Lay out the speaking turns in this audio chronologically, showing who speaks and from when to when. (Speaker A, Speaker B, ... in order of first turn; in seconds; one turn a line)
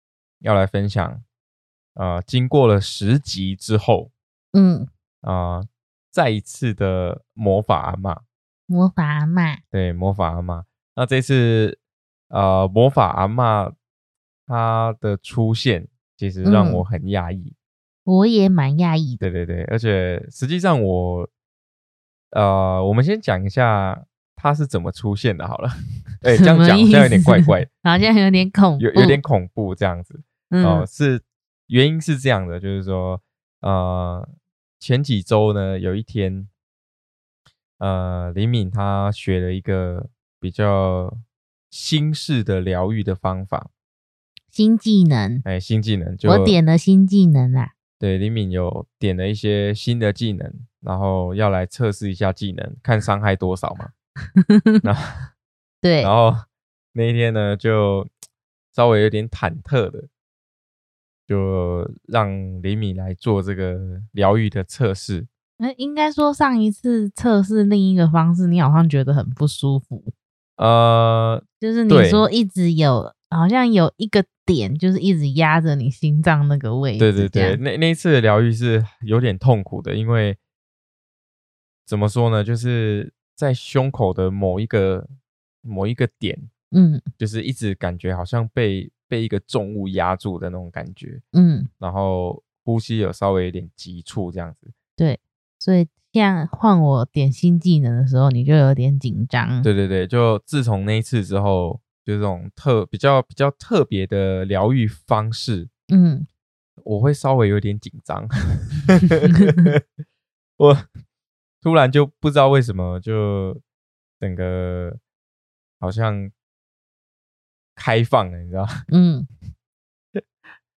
Speaker A: 0.4-1.2
Speaker A: 2.0-4.1
Speaker B: 4.5-4.9
Speaker A: 5.2-8.2
Speaker B: 8.7-9.6
Speaker A: 9.7-11.8
Speaker A: 12.3-13.8
Speaker A: 14.5-17.6
Speaker B: 16.4-16.8
Speaker B: 18.1-19.2
Speaker A: 19.2-21.3
Speaker A: 22.3-27.7
Speaker B: 26.3-29.2
Speaker A: 28.8-34.3
Speaker B: 30.5-30.9
Speaker A: 34.8-36.5
Speaker A: 37.8-43.7
Speaker B: 44.5-45.5
Speaker A: 45.5-46.6
Speaker B: 46.2-47.7
Speaker A: 48.0-53.9
Speaker B: 54.4-54.8
Speaker A: 54.8-55.3
Speaker B: 55.8-56.1
Speaker A: 56.0-58.1
Speaker A: 58.7-60.1
Speaker A: 61.3-65.3
Speaker B: 65.6-70.1
Speaker A: 70.6-72.2
Speaker B: 71.6-77.6
Speaker A: 77.0-80.4
Speaker A: 81.9-85.1
Speaker A: 85.6-86.5
Speaker B: 86.7-87.0
Speaker A: 87.2-91.2
Speaker B: 91.3-91.7
Speaker A: 91.8-94.7
Speaker B: 95.0-99.7
Speaker A: 99.6-105.7
Speaker B: 105.9-106.3
Speaker A: 106.8-109.8
Speaker B: 109.3-109.7
Speaker A: 110.6-110.9
Speaker A: 111.6-113.6
Speaker A: 114.2-115.0
Speaker A: 115.8-116.3
Speaker A: 117.8-118.8
Speaker B: 118.9-119.3